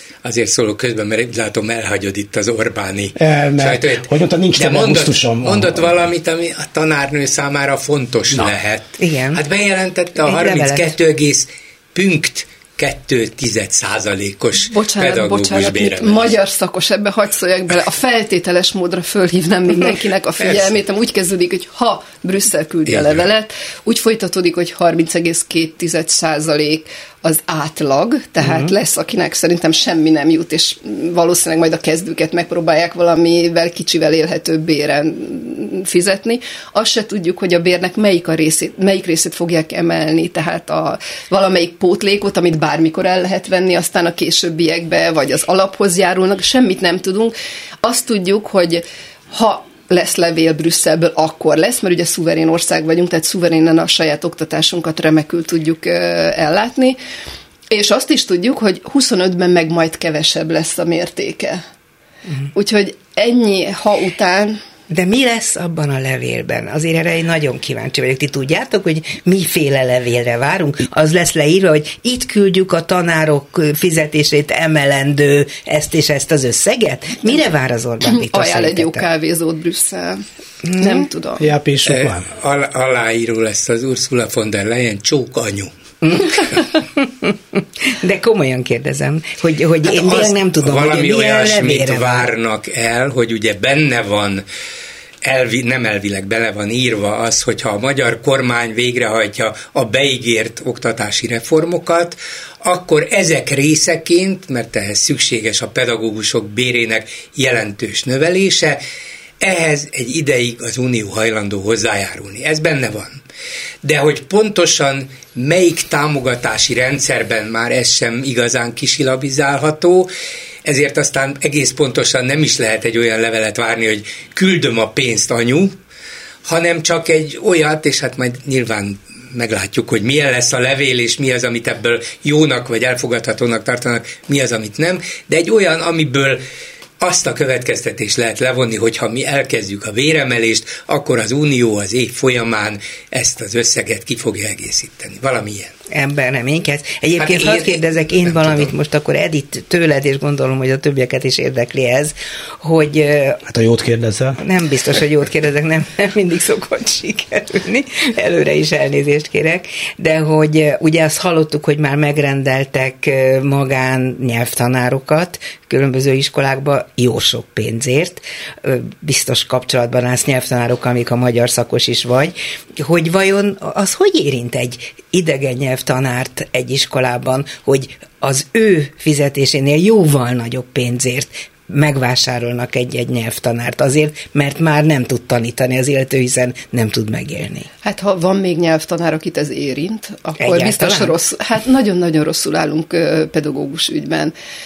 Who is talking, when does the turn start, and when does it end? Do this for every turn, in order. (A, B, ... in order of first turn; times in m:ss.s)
0:00.2-0:16.4 A
0:03.2-0:06.0 B
0:09.0-0:09.4 C
0:10.2-0:10.9 C
0:14.6-0:57.0 D
0:20.4-0:20.7 A
0:22.9-0:23.3 A
0:57.7-1:01.6 D
1:02.5-1:04.6 D
1:04.9-1:19.1 C
1:18.1-1:20.2 D
1:20.7-1:21.0 C
1:20.8-1:21.4 D
1:21.4-1:22.3 B
1:21.9-1:25.7 A
1:26.0-1:32.3 C
1:29.8-1:34.4 A
1:35.2-1:48.8 A
1:49.4-1:53.2 A
1:53.8-2:00.1 A
2:00.6-2:05.7 A
2:06.5-2:16.4 A
2:17.0-2:25.7 A
2:25.9-2:33.4 C
2:27.2-2:28.7 A
2:33.5-2:34.4 B
2:34.4-3:07.7 C
3:07.8-3:14.3 D
3:10.4-3:11.2 C